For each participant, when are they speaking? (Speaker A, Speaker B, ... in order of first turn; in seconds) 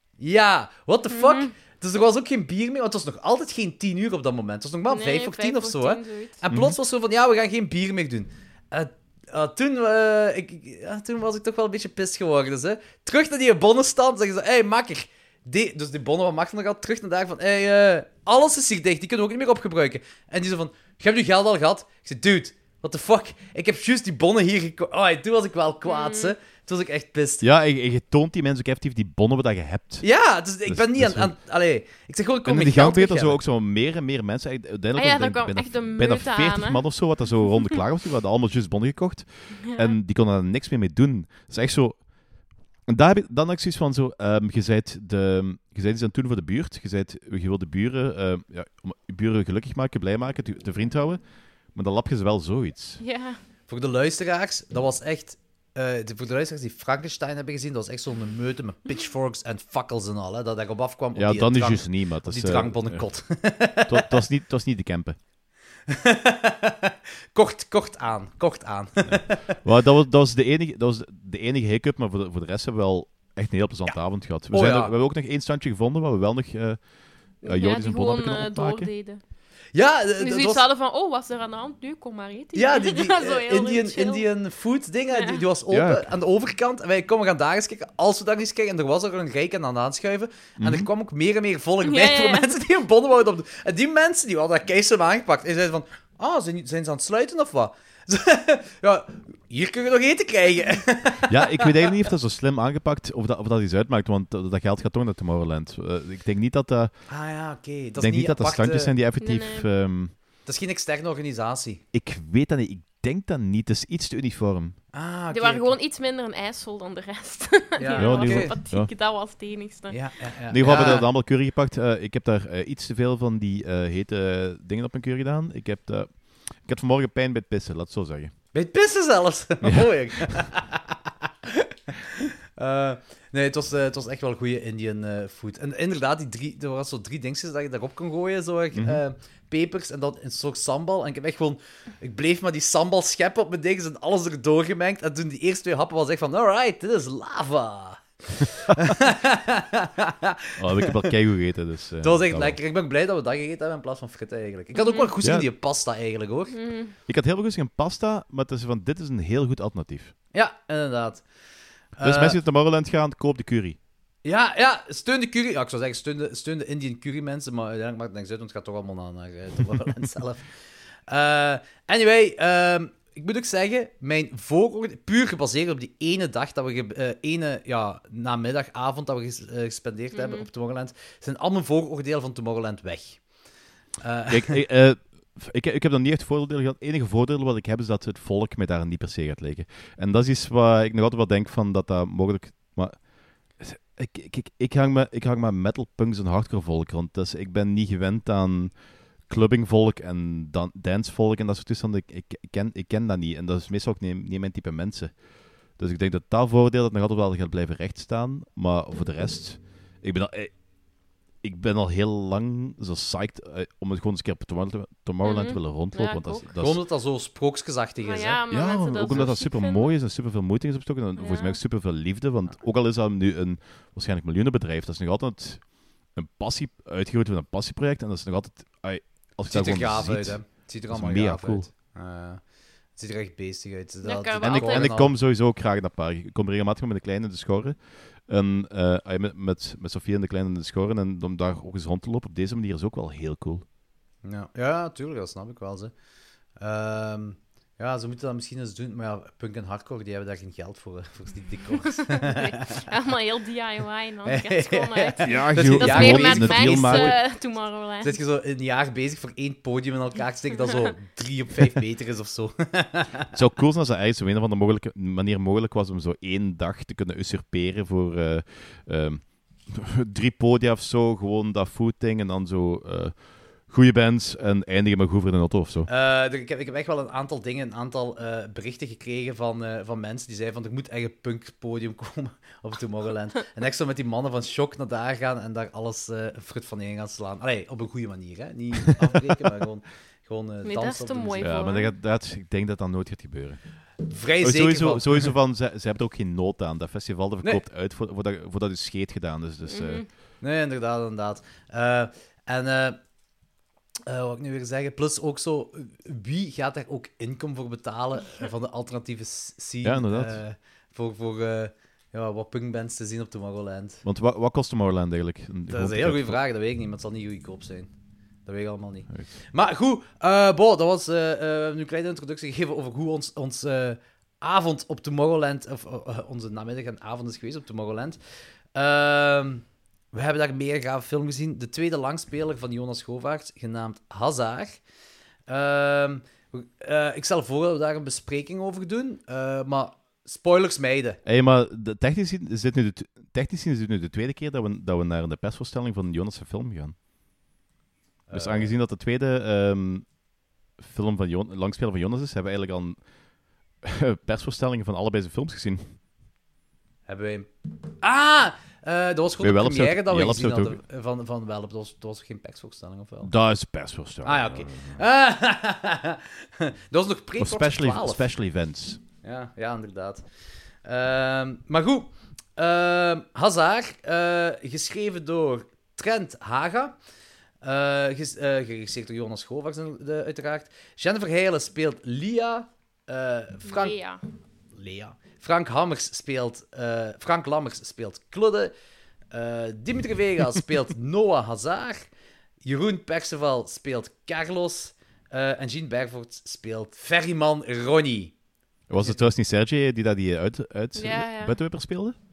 Speaker A: 0.2-27.4, 30.0-33.4, 53.7-64.2, 65.9-69.5, 73.8-74.9, 79.7-80.6, 82.5-101.7, 107.1-108.9, 110.4-111.8, 114.9-115.8, 117.8-118.6, 119.9-121.1, 128.5-130.9, 131.6-150.9, 152.0-156.6, 160.3-162.4, 164.2-184.6, 216.6-218.4, 229.5-235.1, 244.2-245.9, 246.5-252.8, 254.2-257.4, 258.0-263.3, 275.9-291.6, 294.0-295.4, 300.4-303.1, 304.1-314.0, 315.7-334.8, 335.5-341.2, 348.3-348.8, 357.1-363.3, 364.2-368.2, 369.2-377.0, 377.6-384.0, 384.7-388.7, 389.3-398.4, 398.9-399.2
Speaker B: 1.1-1.5, 4.9-6.4, 25.8-26.3, 34.9-37.5, 39.7-39.9, 53.0-53.4, 77.4-79.3, 80.2-84.4, 85.1-85.4, 91.8-92.6, 109.2-109.7, 115.3-120.3, 154.7-155.1, 156.5-156.9, 180.1-180.5, 215.2-216.5, 218.0-219.9, 221.2-221.6, 234.0-234.9, 252.1-258.2, 290.6-291.9, 299.6-300.1, 383.6-384.2, 400.9-401.6
Speaker C: 6.5-6.8, 27.4-31.4, 32.4-53.0, 61.1-65.2, 69.0-78.9, 85.7-86.1, 90.6-90.9, 101.3-107.2, 108.0-110.1, 111.9-114.8, 118.0-118.9, 120.5-128.4, 129.6-130.3, 138.7-139.0, 150.6-152.6, 155.2-155.5, 157.1-160.2, 162.0-163.8, 184.3-210.8, 211.4-216.8, 218.5-231.7, 234.4-243.6, 255.2-257.2, 263.3-275.9, 291.4-300.0, 309.8-310.4, 314.0-316.4, 319.1-319.3, 341.2-346.9, 348.3-350.2, 350.8-356.0, 359.4-360.8, 363.2-365.0, 367.4-369.0, 398.9-402.1